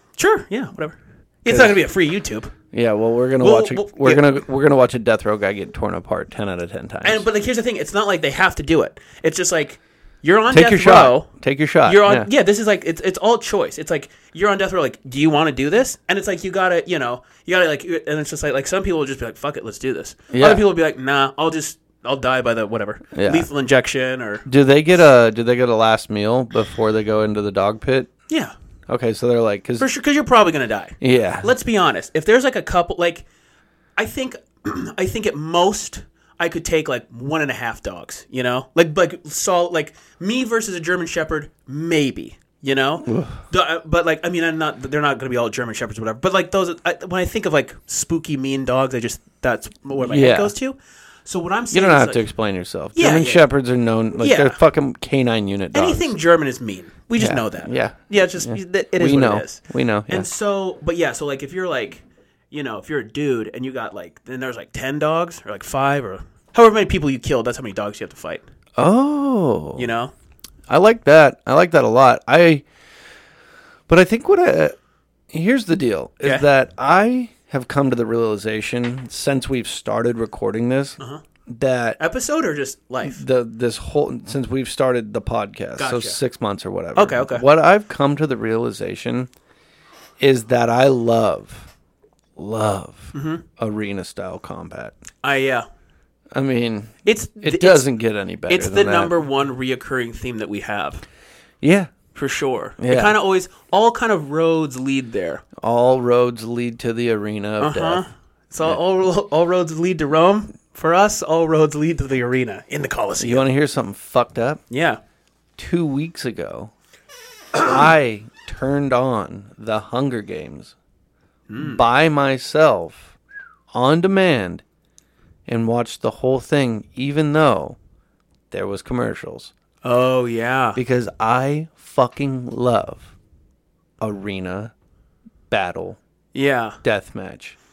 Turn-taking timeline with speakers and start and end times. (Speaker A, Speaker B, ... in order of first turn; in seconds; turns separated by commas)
Speaker A: 0.2-2.5, Speaker B: 1.4-1.8, Speaker B: 2.7-7.2, Speaker A: 3.4-4.3, Speaker A: 7.0-11.3, Speaker B: 10.5-12.3, Speaker A: 11.8-24.4, Speaker B: 20.3-20.6, Speaker B: 23.1-23.5, Speaker B: 24.4-28.1, Speaker A: 28.3-28.5, Speaker B: 28.9-29.9, Speaker A: 29.8-33.2, Speaker B: 31.0-31.5, Speaker A: 34.0-52.2, Speaker B: 43.0-43.4, Speaker B: 50.0-50.5, Speaker B: 51.7-56.1, Speaker A: 52.9-53.4, Speaker A: 54.2-54.6, Speaker A: 55.7-68.4, Speaker B: 57.2-60.3, Speaker B: 68.8-69.9, Speaker A: 69.8-70.1, Speaker B: 70.7-72.6, Speaker B: 73.9-74.8, Speaker B: 75.3-82.0, Speaker A: 82.0-83.2, Speaker B: 83.0-89.3, Speaker A: 85.8-86.2, Speaker A: 86.9-87.4, Speaker B: 90.2-91.7, Speaker B: 92.4-94.9, Speaker A: 93.1-93.4, Speaker A: 95.2-95.6, Speaker B: 96.3-99.1, Speaker A: 97.0-97.8, Speaker A: 98.5-101.0, Speaker B: 101.6-101.9, Speaker A: 102.1-105.4, Speaker B: 102.8-103.2, Speaker B: 105.6-108.0, Speaker A: 107.6-113.4, Speaker B: 113.2-114.6, Speaker A: 114.7-115.0, Speaker B: 115.6-116.7, Speaker B: 117.5-120.7, Speaker A: 121.5-121.8, Speaker B: 121.6-123.1, Speaker B: 123.7-124.6, Speaker B: 125.5-127.8, Speaker B: 128.5-129.5, Speaker A: 129.8-130.8, Speaker B: 130.8-133.1, Speaker B: 134.0-134.7, Speaker B: 135.5-136.0, Speaker A: 136.3-136.8, Speaker B: 136.8-137.6